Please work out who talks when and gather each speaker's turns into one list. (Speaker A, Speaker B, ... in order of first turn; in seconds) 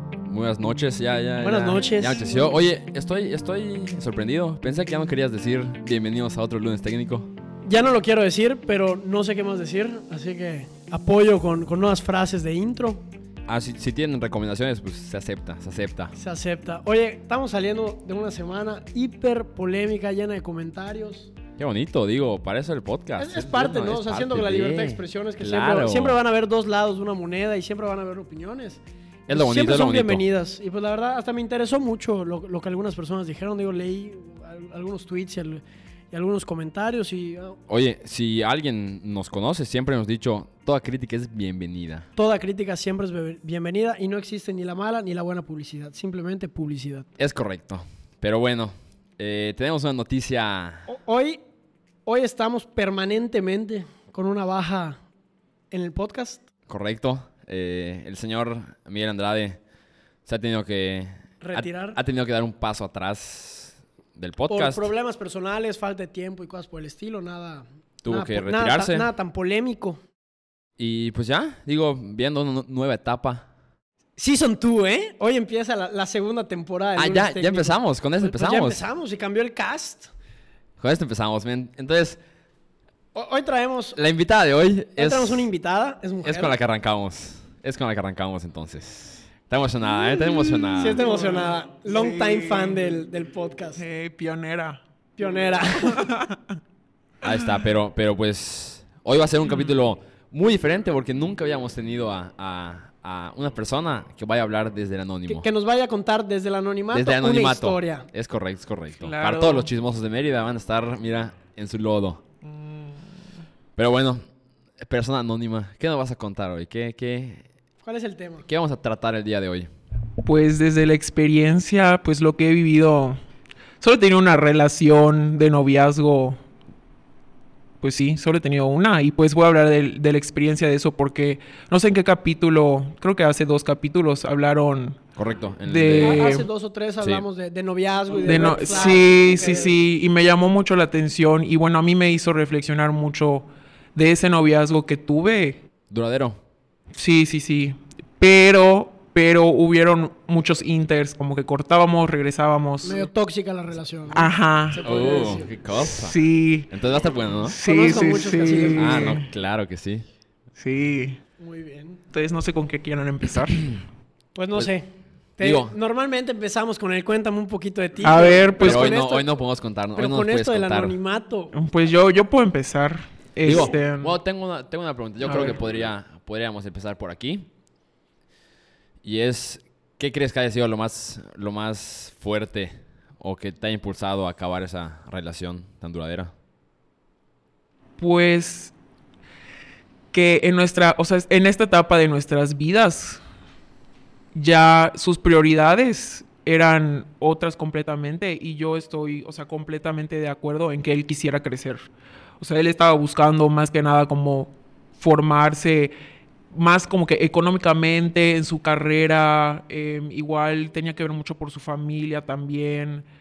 Speaker A: 0.2-7.3, 13.5-16.1, 21.6-26.2, 29.3-30.2, 37.7-42.1, 47.2-50.9, 56.7-59.6, 60.3-64.9, 68.0-69.0, 70.8-73.5, 77.0-78.8, 80.8-82.2, 84.0-85.5, 86.2-91.0, 97.2-105.5, 106.9-112.2, 113.8-114.2, 114.8-117.4, 118.5-119.7, 135.2-136.3, 145.9-146.4, 154.8-157.6, 158.8-160.0, 165.4-165.8, 168.6-171.0, 173.4-177.5, 179.0-186.3
Speaker B: 1.4-2.2, 7.7-13.0, 16.1-21.3, 23.2-37.6, 42.2-47.1, 50.9-51.4, 52.0-55.0, 55.7-56.4, 61.4-62.0, 64.5-70.0, 74.2-80.1, 83.1-84.0, 85.0-86.5, 90.8-93.8, 95.2-96.1, 105.3-108.1, 117.8-118.5, 136.0-139.7, 152.8-155.5, 157.6-159.2, 161.4-162.0, 164.3-169.3, 169.9-171.5
Speaker C: 90.2-92.9, 93.8-94.8, 95.6-96.5, 99.5-99.8, 109.0-109.7, 112.4-113.2, 120.2-123.2, 123.8-126.4, 127.8-135.0, 135.7-136.5, 138.2-145.6, 146.9-153.1, 154.1-154.8, 155.8-156.7, 157.5-159.3, 160.6-161.2, 162.1-163.8, 168.0-169.0, 171.5-174.2, 175.2-175.6, 188.0-188.7, 190.1-193.2, 194.3-201.8, 202.4-205.9, 206.5-213.1